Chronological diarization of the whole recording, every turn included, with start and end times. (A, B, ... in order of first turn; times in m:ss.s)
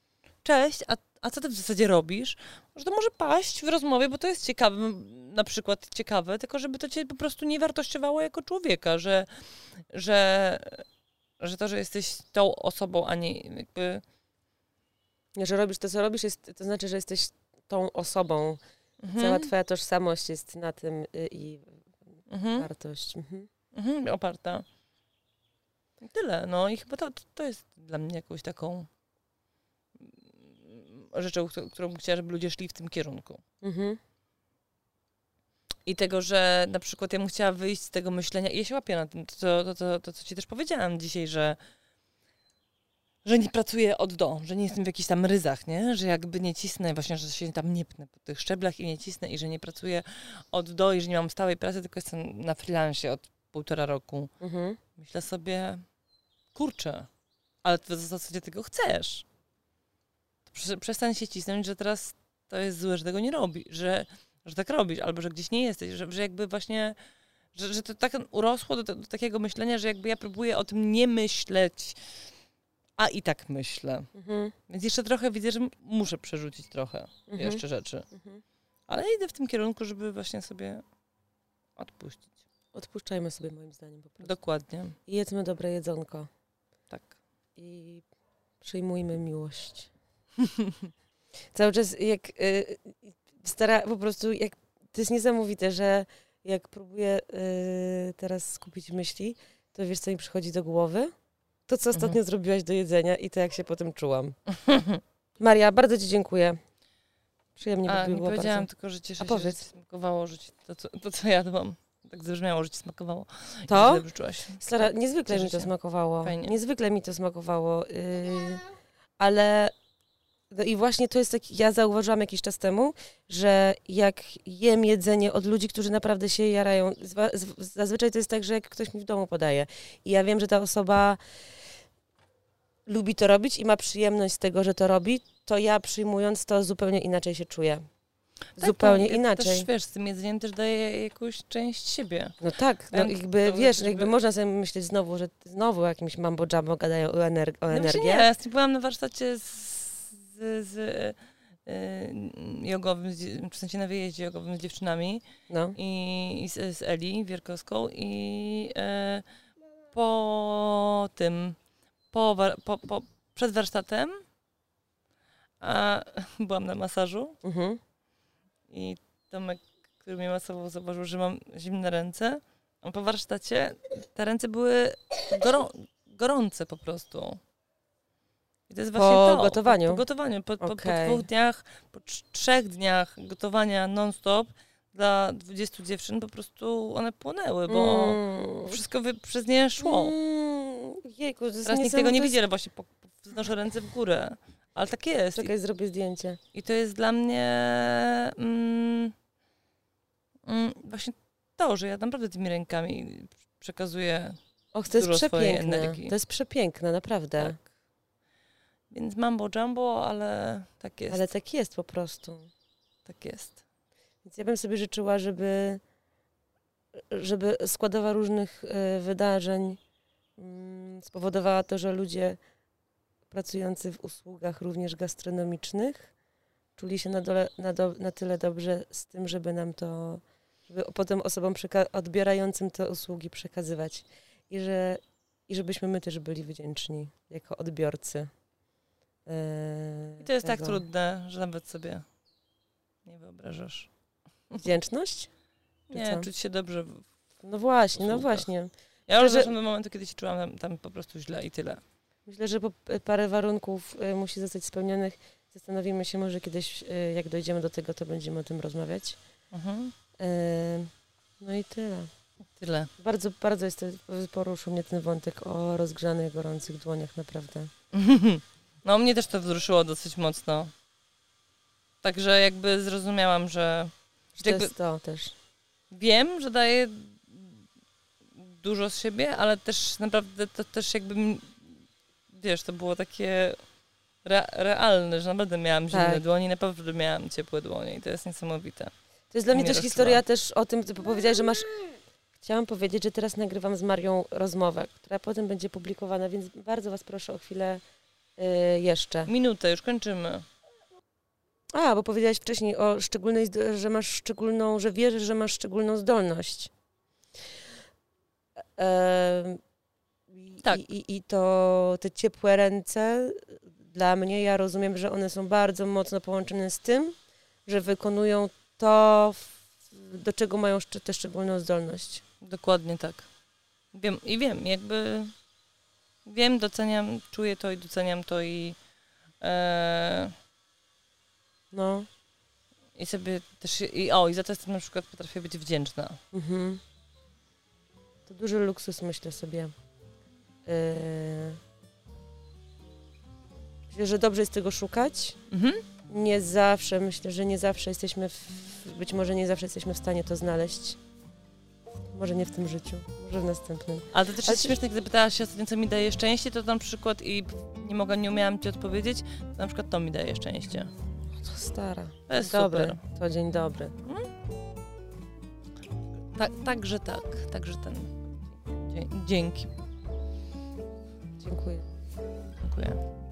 0:00.4-0:10.8 A
0:11.4-0:14.0 A
0:15.3-0:18.6 B
0:19.0-0:19.5 A
0:19.1-0:21.8 B
0:22.3-0:22.7 A
0:22.5-0:23.5 B
0:23.7-0:24.6 A
0:26.0-0:28.9 A
0:30.0-0:33.4 A
0:33.6-0:34.0 B
0:35.8-0:41.6 A
0:43.2-0:54.3 A
0:54.4-0:54.8 B
0:55.0-0:55.8 A
0:56.5-0:57.1 A
0:57.6-0:59.2 A
1:00.5-1:07.0 A
1:07.5-1:12.0 A
1:13.0-1:14.1 A
1:14.1-1:14.6 B
1:14.7-1:18.1 A
1:17.3-1:18.4 B
1:18.9-1:20.8 A
1:21.8-1:22.3 A
1:22.7-1:24.4 B
1:24.2-1:25.0 A
1:25.1-1:26.3 B
1:27.6-1:28.0 B
1:28.6-1:29.9 B
1:30.4-1:30.8 A
1:31.5-1:41.1 B
1:41.7-1:44.4 B
1:41.9-1:42.2 A
1:44.6-1:45.0 A
1:45.4-1:46.6 B
1:47.6-1:48.7 B
1:47.8-1:55.7 A
1:49.2-1:49.6 B
1:53.7-1:58.6 B
1:56.2-1:56.6 A
1:59.2-1:59.7 B
2:00.5-2:11.2 B
2:12.8-2:17.8 B
2:18.6-2:22.4 A
2:18.6-2:19.7 B
2:22.4-2:28.3 B
2:22.9-2:24.1 A
2:27.7-2:35.2 A
2:35.5-2:35.8 B
2:35.7-2:39.2 A
2:39.9-2:41.6 A
2:42.1-2:44.2 A
2:45.6-2:47.4 A
2:47.4-2:47.8 B
2:48.7-2:57.4 A
2:58.7-3:10.1 A
2:58.9-3:00.0 B
3:00.6-3:01.3 B
3:07.7-3:08.8 B
3:09.8-3:12.4 B
3:11.6-3:15.5 A
3:15.4-3:16.4 B
3:16.5-3:19.1 A
3:20.4-3:26.1 A
3:24.7-3:27.6 B
3:28.9-3:31.3 A
3:31.1-3:32.5 B
3:33.0-3:33.6 A
3:34.2-3:35.8 B
3:36.9-3:39.8 B
3:40.4-3:42.4 B
3:43.3-3:46.1 B
3:46.8-3:58.3 B
3:59.2-4:00.8 B
4:00.2-4:02.0 A
4:03.0-4:03.9 A
4:04.5-4:05.3 B
4:05.9-4:07.1 A
4:05.9-4:06.3 B
4:07.4-4:09.5 B
4:08.0-4:08.5 A
4:09.1-4:11.8 A
4:12.3-4:19.2 B
4:19.5-4:19.9 A
4:20.2-4:22.1 B
4:22.6-4:22.9 A
4:23.0-4:27.7 B
4:27.9-4:30.7 A
4:32.0-4:34.7 A
4:34.4-4:35.3 B
4:35.9-4:37.6 A
4:38.4-4:41.8 A
4:42.3-4:43.6 A
4:44.2-4:48.9 A
4:45.9-4:46.2 B
4:49.3-4:51.8 B
4:49.5-4:50.2 A
4:52.4-4:57.8 B
4:58.4-4:59.3 B
4:59.2-5:00.4 A
5:01.7-5:06.7 B
5:08.8-5:09.6 B
5:10.3-5:22.2 B
5:22.4-5:23.3 A
5:23.9-5:25.3 A
5:26.2-5:28.8 A
5:29.4-5:30.3 A
5:31.7-5:32.1 B
5:33.0-5:36.2 A
5:36.3-5:36.8 B
5:38.3-5:39.7 B
5:40.6-5:41.6 B
5:43.9-5:45.4 B
5:45.5-5:45.8 A
5:46.1-5:51.0 B
5:52.1-5:54.8 B
5:54.1-6:00.9 A
6:01.3-6:03.9 B
6:02.3-6:03.0 A
6:04.0-6:04.3 A
6:06.3-6:09.7 A
6:11.4-6:11.8 B
6:12.6-6:13.0 A